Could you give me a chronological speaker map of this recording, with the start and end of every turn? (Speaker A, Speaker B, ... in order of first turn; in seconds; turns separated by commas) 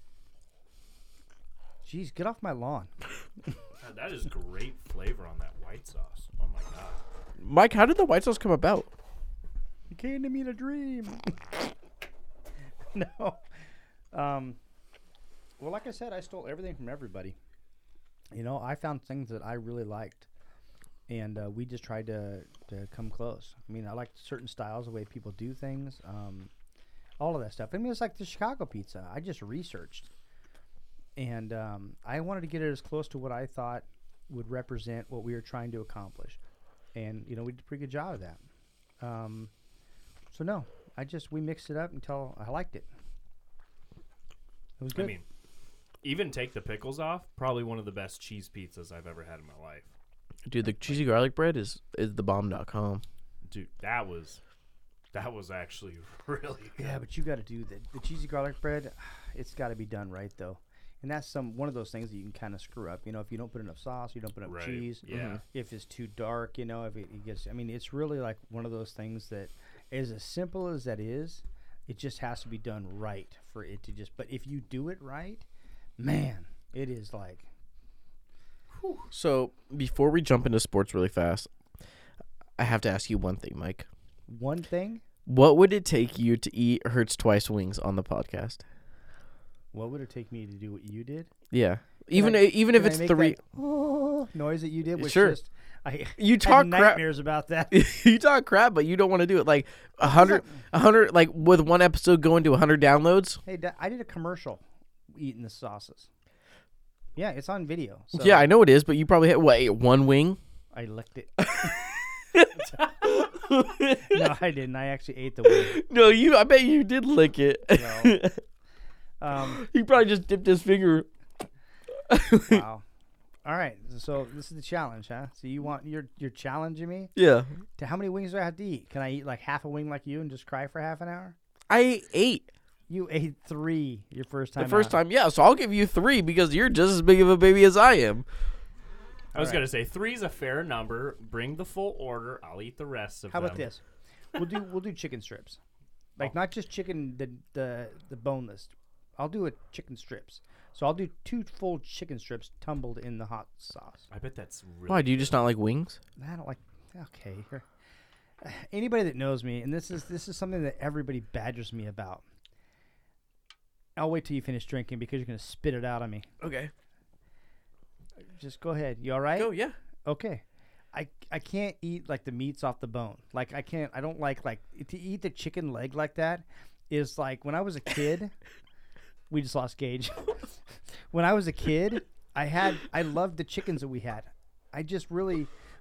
Speaker A: 1.8-2.9, Speaker B: 3.8-7.0, Speaker C: 7.4-8.9, Speaker A: 9.9-11.4, Speaker A: 12.9-13.4, Speaker A: 14.1-14.6, Speaker A: 15.6-17.4, Speaker A: 18.3-20.3, Speaker A: 21.1-26.5, Speaker A: 27.2-30.1, Speaker A: 31.1-36.4, Speaker A: 36.9-38.4, Speaker A: 39.0-39.5, Speaker A: 40.3-42.9, Speaker A: 44.8-45.1, Speaker B: 44.9-45.2, Speaker B: 46.0-49.9, Speaker C: 50.5-53.0, Speaker B: 53.5-54.4, Speaker B: 55.1-56.8, Speaker A: 56.8-75.5, Speaker B: 64.5-65.4, Speaker C: 65.1-65.4, Speaker A: 76.0-77.5, Speaker B: 78.7-79.1, Speaker C: 79.1-81.5, Speaker C: 82.6-83.9, Speaker A: 84.3-85.0, Speaker C: 85.3-88.6, Speaker A: 89.7-91.3, Speaker C: 91.5-93.4, Speaker A: 92.1-97.8, Speaker C: 95.0-95.4, Speaker C: 96.2-97.0, Speaker C: 97.7-103.4, Speaker A: 100.0-100.6, Speaker A: 103.5-106.1, Speaker A: 107.2-108.5, Speaker C: 108.1-110.4, Speaker A: 110.7-111.7, Speaker C: 111.5-114.3, Speaker A: 114.0-115.8, Speaker C: 115.5-118.4, Speaker A: 117.7-118.2, Speaker A: 119.2-119.6, Speaker C: 119.5-121.1, Speaker C: 122.1-122.6, Speaker A: 122.5-122.8, Speaker A: 123.5-127.1, Speaker C: 127.2-127.5, Speaker A: 127.8-131.4, Speaker C: 131.7-132.5, Speaker A: 132.9-135.0, Speaker C: 134.6-138.3, Speaker A: 139.3-139.7, Speaker B: 139.3-143.7, Speaker A: 143.3-143.8, Speaker A: 144.4-145.6, Speaker A: 146.2-154.1, Speaker B: 154.1-155.4, Speaker C: 154.9-156.0, Speaker A: 156.2-157.7, Speaker A: 158.4-162.2, Speaker A: 163.9-166.3, Speaker C: 166.4-166.7, Speaker A: 168.3-169.5, Speaker C: 169.4-169.8, Speaker A: 170.1-178.3, Speaker A: 179.3-180.4, Speaker A: 181.1-185.5